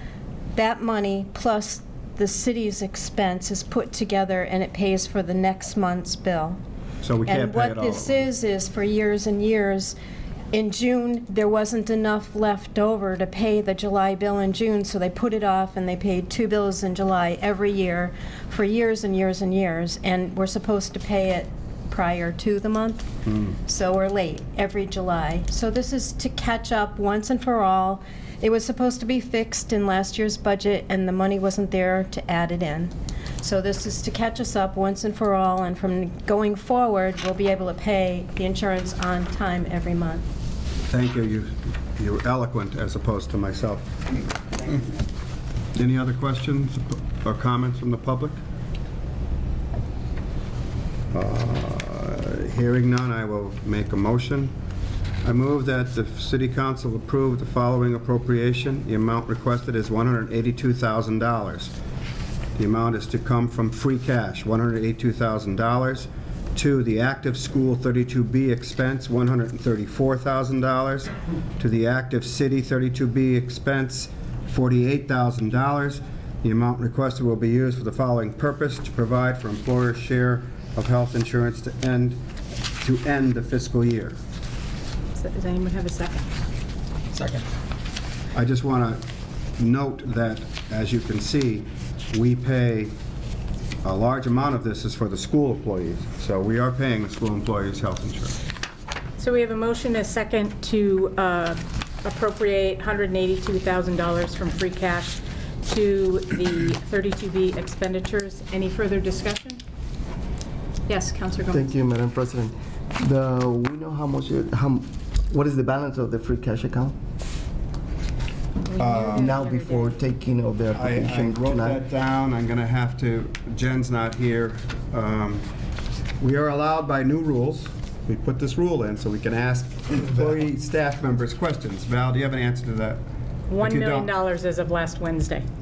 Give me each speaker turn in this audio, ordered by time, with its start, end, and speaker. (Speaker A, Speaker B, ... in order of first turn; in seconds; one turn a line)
Speaker A: 0.6-6.6
Speaker B: 7.0-8.2
Speaker A: 7.2-10.0
Speaker A: 10.5-40.3
Speaker B: 40.9-44.0
Speaker B: 45.8-48.4
Speaker B: 51.1-54.5
Speaker B: 55.2-61.7
Speaker B: 62.6-82.2
Speaker B: 82.8-84.2
Speaker C: 85.2-86.3
Speaker B: 88.3-89.0
Speaker B: 89.6-92.9
Speaker B: 93.8-98.4
Speaker C: 99.2-109.6
Speaker A: 110.9-111.7
Speaker D: 111.5-117.0
Speaker C: 118.7-120.0
Speaker B: 118.8-119.4
Speaker D: 119.0-121.8
Speaker B: 120.7-125.5
Speaker B: 126.2-133.0
Speaker C: 133.5-135.5
Speaker B: 133.6-134.1